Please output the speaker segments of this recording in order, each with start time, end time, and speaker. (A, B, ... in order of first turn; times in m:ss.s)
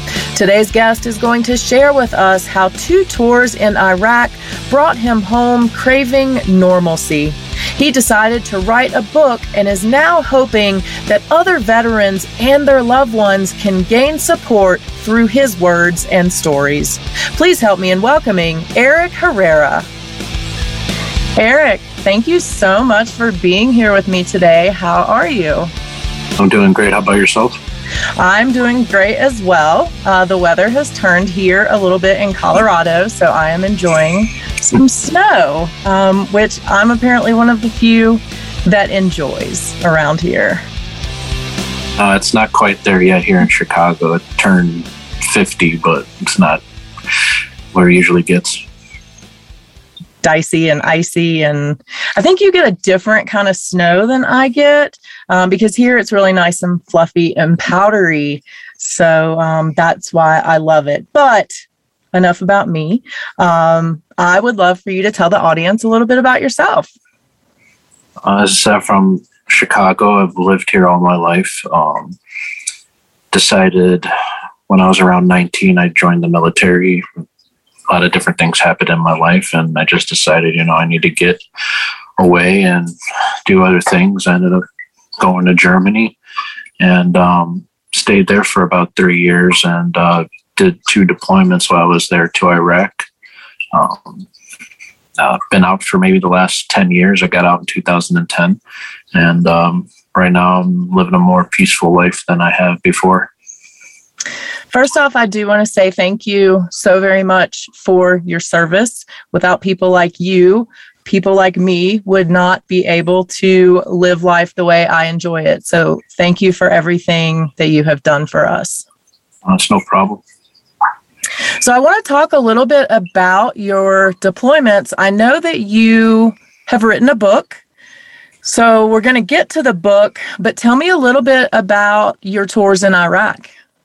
0:00.3-0:19.9 A
0:21.4-0:25.7 A
0:26.4-0:27.6 B
0:28.2-0:40.6 A
0:42.0-0:46.6 B
0:47.7-0:48.6 B
0:50.2-1:01.5 A
1:02.1-1:06.9 A
1:08.2-1:12.2 B
1:13.3-1:14.1 B
1:14.7-1:17.1 B
1:17.9-1:21.4 B
1:22.2-1:22.9 B
1:23.4-1:24.6 B
1:25.2-1:26.2 B
1:26.8-1:33.1 B
1:33.7-1:34.3 B
1:35.2-1:38.6 B
1:39.1-1:43.3 B
1:44.7-1:58.8 A
1:59.4-2:00.2 B
2:01.6-2:07.6 A
2:08.4-2:13.5 A